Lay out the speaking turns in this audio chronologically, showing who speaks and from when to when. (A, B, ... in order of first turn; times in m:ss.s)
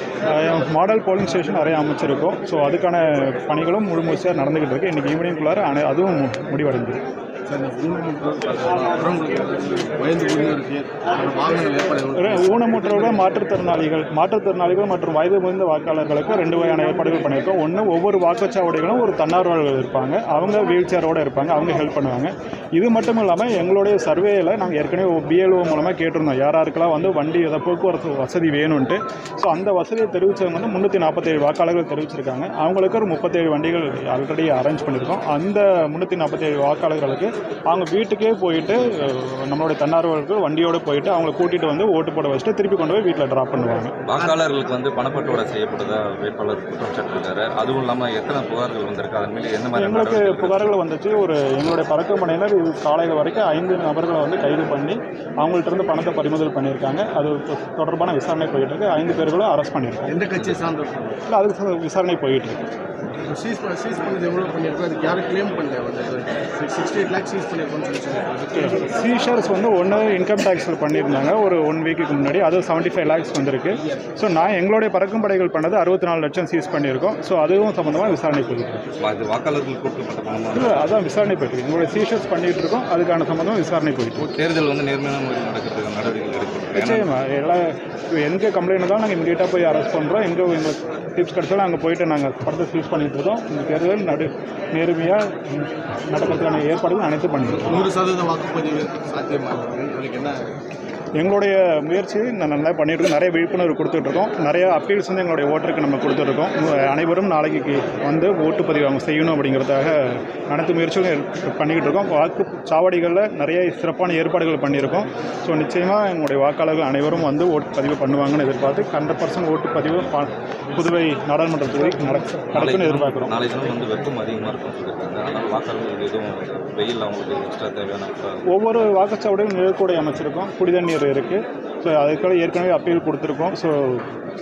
0:00.3-0:07.0 A
0:07.5-0:13.2 B
0:12.2-0:44.0 A
0:44.1-0:50.7 C
0:49.8-1:00.2 A
1:00.1-1:01.2 B
1:00.4-1:00.6 C
1:01.3-1:02.6 A
1:03.3-1:08.9 B
1:08.5-1:18.8 A
1:19.0-1:20.9 C
1:20.5-1:24.3 A
1:24.2-1:27.1 C
1:26.7-1:37.8 A
1:37.6-1:40.6 B
1:41.2-2:03.5 A
2:02.5-2:08.8 C
2:08.5-2:14.1 A